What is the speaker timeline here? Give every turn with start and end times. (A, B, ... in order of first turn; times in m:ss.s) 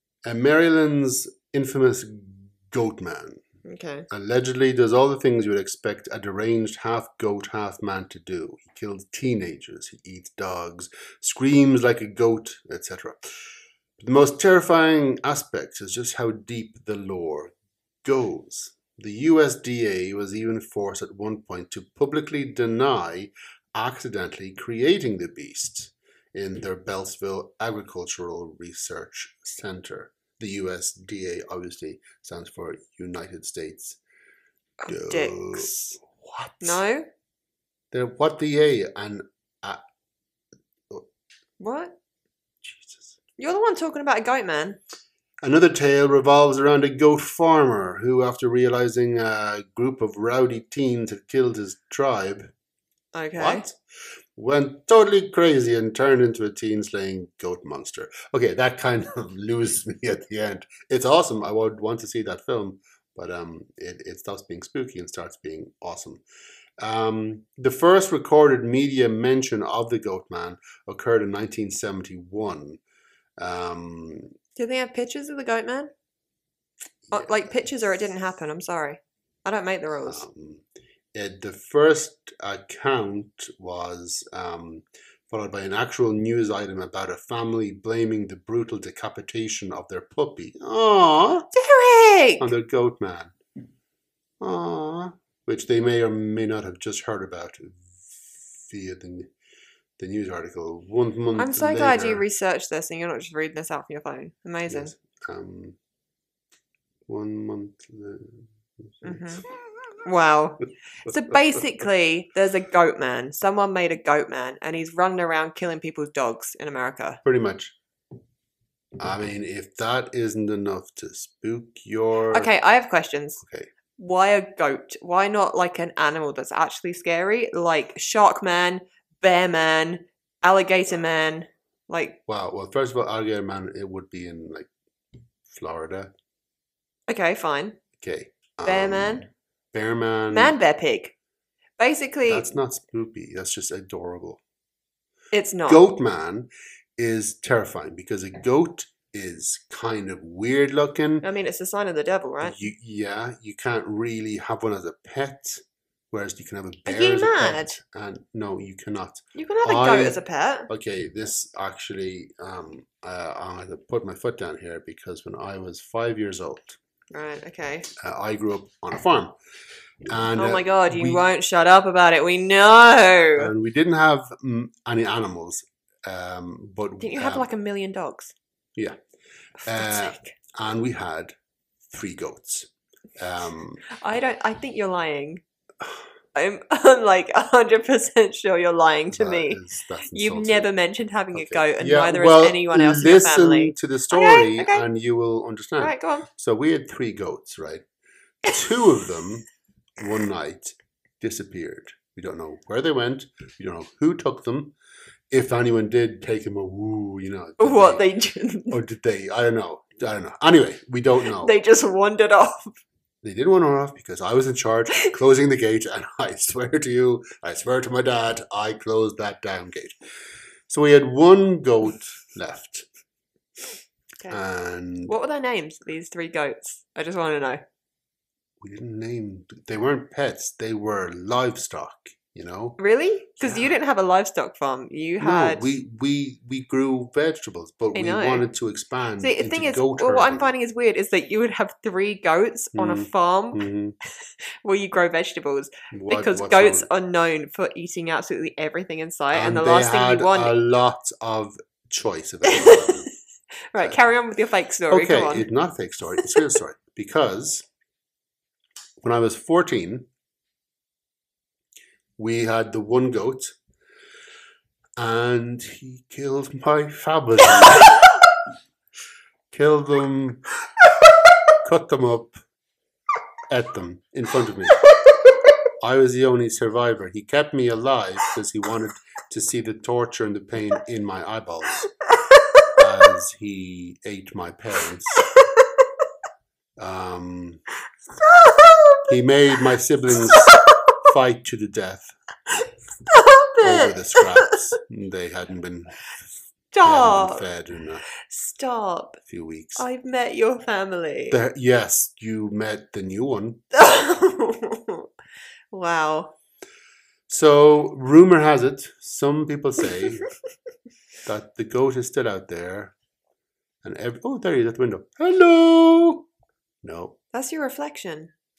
0:00.2-0:03.4 A
0:03.6-0:04.1 B
0:04.1-0:13.3 A
0:14.0-0:17.5 A
0:18.0-0:34.0 A
0:34.8-0:35.9 B
0:34.9-0:36.8 A
0:36.6-0:37.1 B
0:37.9-0:39.8 A
0:41.6-0:42.0 B
0:42.6-0:43.2 A
0:43.4-0:44.8 B
0:45.4-0:52.5 A
0:53.1-0:53.7 B
0:53.4-0:53.8 A
0:54.4-1:06.2 A
1:06.8-1:12.8 A
1:13.4-1:14.3 A
1:14.6-1:15.9 B
1:17.1-1:17.5 A
1:17.1-1:20.2 B
1:20.1-1:20.6 A
1:21.2-1:31.5 A
1:31.5-1:32.5 B
1:32.4-1:33.3 A
1:34.4-1:39.3 A
1:40.0-1:42.2 A
1:41.4-1:44.9 B
1:44.7-1:45.8 A
1:47.1-1:49.4 A
1:49.0-1:49.4 B
1:50.0-1:57.2 B
1:57.2-1:57.8 A
1:59.0-2:02.5 A
2:02.3-2:03.4 B
2:03.4-2:03.7 A
2:04.0-2:12.2 B
2:12.3-2:14.7 A
2:15.5-2:16.1 A
2:17.1-2:17.8 B
2:18.0-2:20.6 A
2:18.6-2:19.3 B
2:20.3-2:21.1 B
2:21.8-2:22.5 B
2:22.3-2:24.4 A
2:25.3-2:25.8 B
2:25.7-2:31.2 A
2:31.2-2:32.6 B
2:32.4-2:40.2 A
2:36.9-2:37.8 B
2:39.4-2:40.7 B
2:40.7-2:46.8 A
2:47.1-2:47.9 B
2:48.0-2:49.3 A
2:50.0-2:51.2 A
2:50.4-2:53.5 B
2:53.4-2:57.5 A
2:57.0-2:58.3 B
2:59.6-3:01.4 A
2:59.7-3:00.3 B
3:01.9-3:03.8 A
3:03.9-3:05.4 B
3:06.4-3:14.9 B
3:09.1-3:10.7 A
3:11.3-3:17.8 A
3:15.8-3:16.3 B
3:18.4-3:19.5 A
3:20.0-3:24.7 A
3:25.3-3:28.0 A
3:27.6-3:28.8 B
3:28.7-3:31.5 A
3:31.4-3:32.8 B
3:33.2-3:40.0 A
3:40.7-3:42.9 A
3:44.3-3:45.1 A
3:45.1-3:47.6 B
3:48.6-3:52.8 A
3:52.8-3:55.7 B
3:53.4-3:53.8 A
3:55.2-4:00.5 A
3:57.9-3:58.5 B
3:59.2-4:03.6 B
4:02.8-4:04.0 A
4:04.6-4:10.6 B
4:05.9-4:06.9 A
4:09.3-4:13.1 A
4:12.5-4:13.1 B
4:13.7-4:15.5 B
4:14.9-4:17.7 A
4:19.0-4:20.1 A
4:22.2-4:23.6 A
4:25.0-4:28.1 A
4:29.5-4:30.4 A
4:31.6-4:32.4 A
4:33.5-4:34.8 A
4:35.8-4:41.8 A
4:42.8-4:45.2 A
4:46.8-4:47.6 A
4:48.2-4:49.1 B
4:49.1-4:52.1 A
4:50.2-4:51.0 B
4:53.1-4:54.6 B
4:53.6-4:56.0 A
4:56.7-4:57.4 B
4:56.8-4:58.1 A
4:58.3-4:59.2 B
4:59.3-4:59.8 A
4:59.8-5:01.4 B
5:01.3-5:03.6 A
5:03.7-5:05.1 B
5:05.7-5:06.3 B
5:07.3-5:10.2 A
5:11.2-5:13.0 A
5:13.8-5:16.3 A
5:16.8-5:17.2 A
5:17.3-5:18.3 B